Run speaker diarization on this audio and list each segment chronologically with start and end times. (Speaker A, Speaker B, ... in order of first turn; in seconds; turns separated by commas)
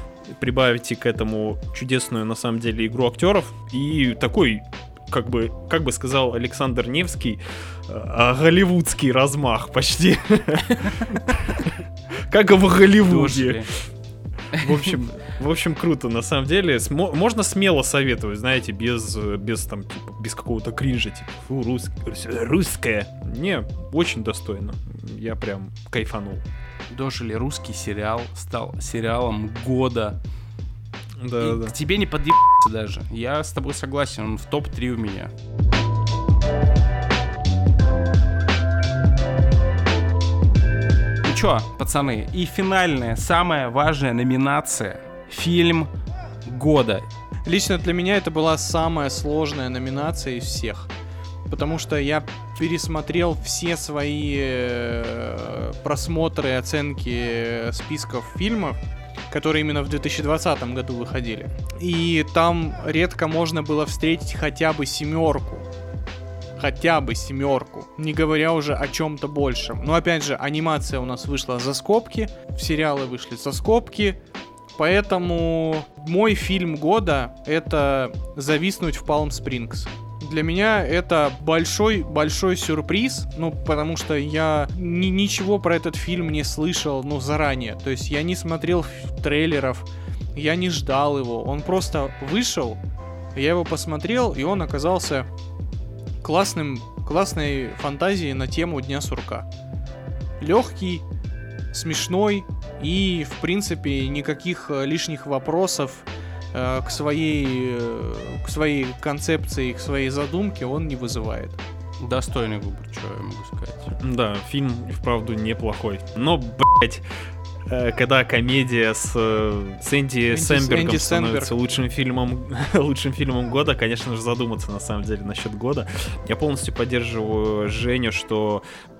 Speaker A: 0.3-11.7, Speaker A: 12.3-13.7, Speaker B: 13.0-13.7, Speaker A: 14.5-26.4, Speaker B: 14.5-15.0, Speaker B: 26.9-30.2, Speaker A: 31.2-31.8, Speaker B: 31.4-35.3, Speaker B: 41.2-45.9, Speaker B: 46.5-47.1, Speaker C: 47.5-50.9, Speaker C: 51.5-58.8, Speaker C: 59.3-65.7, Speaker C: 66.6-74.2, Speaker C: 74.7-92.8, Speaker C: 93.3-95.3, Speaker C: 96.2-99.5, Speaker C: 100.4-101.0, Speaker C: 101.7-111.6, Speaker B: 112.0-113.9, Speaker A: 114.0-117.0, Speaker A: 117.7-128.6, Speaker C: 120.3-121.5